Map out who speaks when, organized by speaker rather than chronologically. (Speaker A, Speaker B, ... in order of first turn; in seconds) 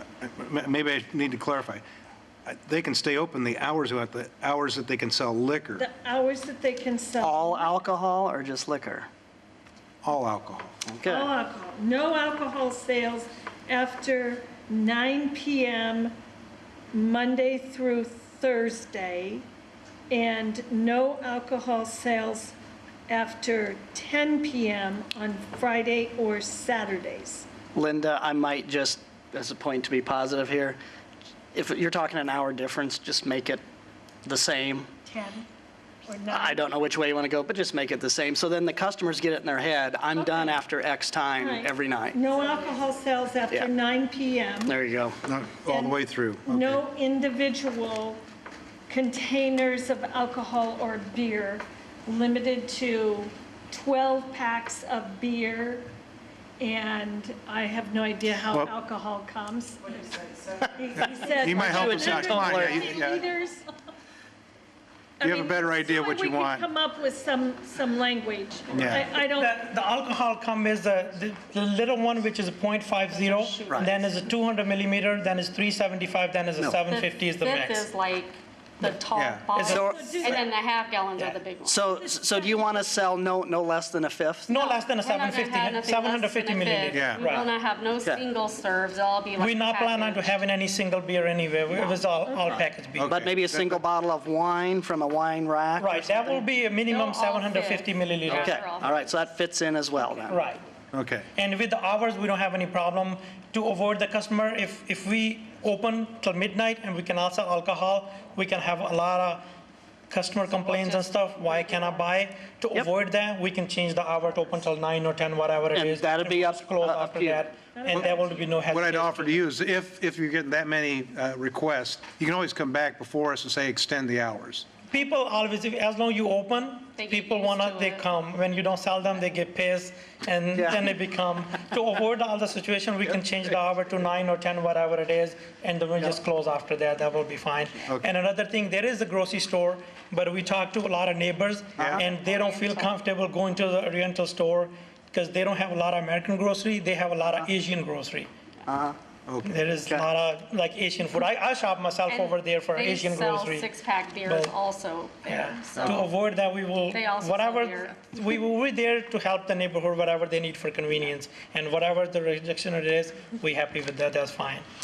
Speaker A: 0.2-1.8, 2.5-5.8, 10.0-10.8, 45.2-46.8, 61.4-63.2, 65.2-66.7, 68.7-69.1, 79.1-79.4, 86.9-87.2, 93.0-93.8, 100.9-101.3, 118.7-124.7, 141.8-142.0
Speaker B: 5.8-7.7, 11.0-16.1, 16.9-19.4, 20.1-22.6, 23.1-27.5, 35.0-35.5, 36.1-36.8, 41.4-44.8, 45.6-48.2, 48.9-55.9, 56.6-63.9, 65.2-69.6, 79.6-80.5, 117.8-118.7
Speaker C: 7.2-9.1, 10.9-11.3, 27.7-30.8, 31.5-33.6, 34.3-34.9, 36.3-42.2, 44.7-45.2, 61.7-62.9, 79.6-80.4, 81.6-84.5, 93.0-96.4, 98.3-100.3, 115.7-117.5, 130.6-130.8, 148.7-149.0
Speaker D: 69.2-77.9, 79.5-79.9, 84.5-87.5, 89.4-93.1, 95.8-98.6, 100.3-100.6, 101.3-109.4, 110.1-119.4, 124.9-148.3, 149.4-153.7, 154.2-154.5, 155.2-164.7
Speaker E: 73.2-74.0, 76.9-82.0, 84.5-90.3, 96.9-99.3, 110.8-112.0, 127.0-128.1, 142.0-142.9, 152.1-156.0, 156.9-158.0